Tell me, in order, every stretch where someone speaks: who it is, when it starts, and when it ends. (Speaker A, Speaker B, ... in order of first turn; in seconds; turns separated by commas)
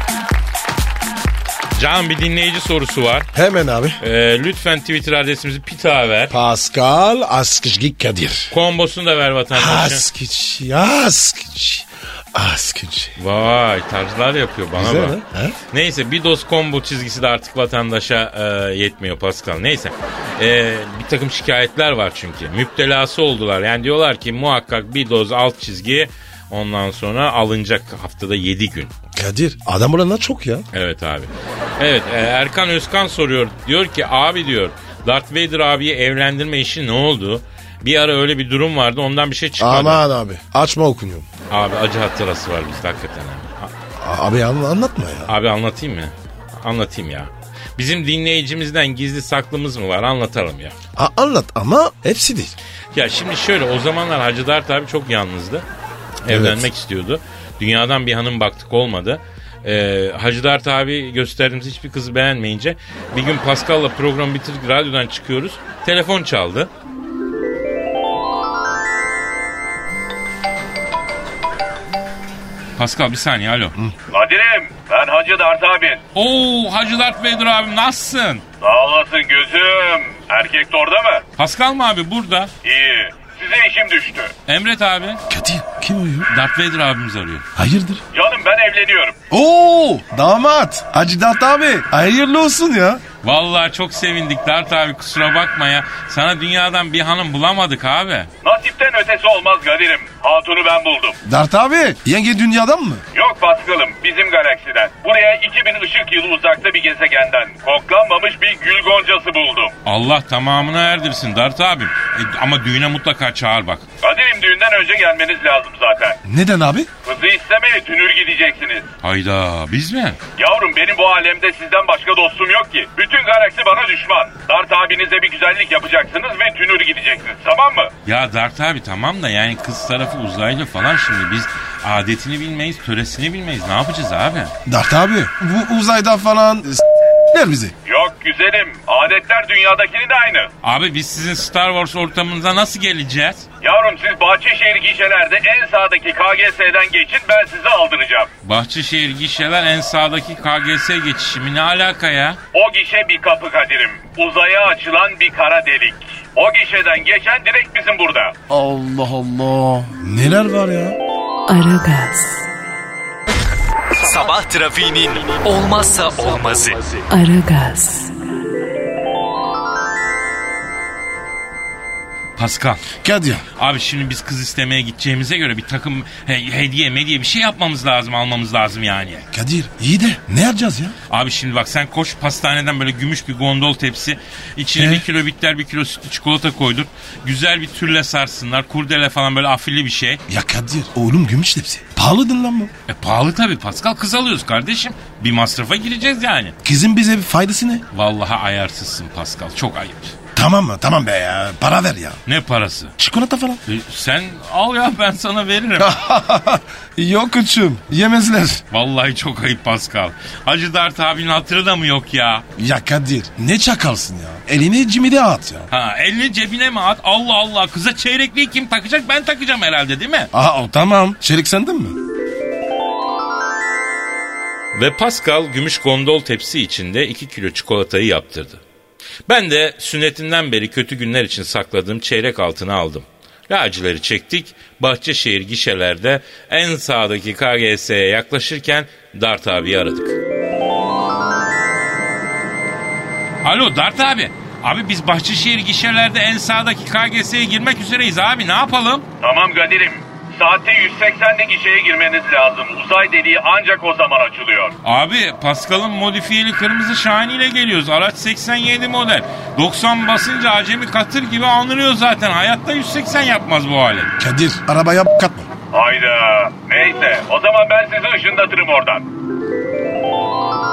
Speaker A: 1.8-3.3, Speaker B: 3.3-4.0, Speaker A: 4.0-6.3, Speaker B: 6.3-8.5, Speaker A: 8.5-10.1, Speaker B: 9.5-13.2, Speaker A: 13.2-15.2, Speaker B: 14.7-15.6, Speaker A: 15.7-28.9, Speaker B: 29.1-30.7, Speaker A: 30.7-40.0, Speaker B: 39.6-41.3, Speaker A: 41.5-43.7, Speaker B: 44.0-45.3, Speaker A: 45.3-50.8, Speaker B: 51.0-52.5, Speaker A: 52.9-55.6, Speaker A: 56.2-66.7, Speaker B: 56.3-56.7, Speaker A: 72.8-73.8, Speaker C: 74.1-76.0, Speaker A: 76.1-78.4, Speaker C: 78.6-81.2, Speaker A: 81.4-82.5, Speaker C: 82.6-84.3, Speaker A: 84.5-85.2, Speaker B: 85.3-86.3, Speaker A: 86.3-87.5, Speaker B: 87.6-88.0, Speaker C: 88.1-89.2, Speaker B: 89.3-93.0, Speaker A: 93.2-98.3, Speaker C: 98.4-101.2, Speaker B: 101.2-103.0, Speaker C: 103.2-109.8, Speaker A: 109.8-113.9, Speaker C: 114.0-116.2, Speaker B: 116.2-116.9, Speaker C: 117.0-118.9, Speaker A: 119.0-120.2, Speaker C: 120.4-127.9, Speaker A: 128.1-134.5, Speaker B: 134.7-137.7, Speaker C: 137.9-140.5, Speaker A: 140.6-143.5, Speaker C: 143.6-148.3, Speaker A: 148.4-152.4, Speaker C: 152.5-158.4, Speaker B: 158.5-161.0, Speaker D: 161.5-162.5, Speaker E: 163.9-167.0, Speaker D: 167.1-168.1, Speaker A: 172.4-172.8, Speaker B: 173.0-173.4, Speaker A: 173.6-179.3, Speaker B: 179.3-181.0, Speaker A: 181.1-190.2, Speaker B: 184.8-185.0, Speaker B: 190.3-192.7, Speaker A: 192.9-196.6, Speaker B: 196.6-197.8, Speaker A: 197.9-200.2, Speaker B: 200.3-202.2, Speaker A: 202.3-202.9, Speaker B: 203.0-203.6, Speaker A: 203.7-206.0, Speaker B: 205.8-208.6, Speaker A: 208.7-212.4, Speaker B: 212.6-215.7, Speaker A: 215.7-220.3, Speaker B: 220.3-222.0, Speaker A: 224.7-228.6, Speaker A: 229.3-240.2, Speaker A: 243.4-249.1, Speaker C: 249.2-254.8, Speaker A: 254.8-264.1, Speaker B: 264.2-265.5, Speaker C: 265.7-269.1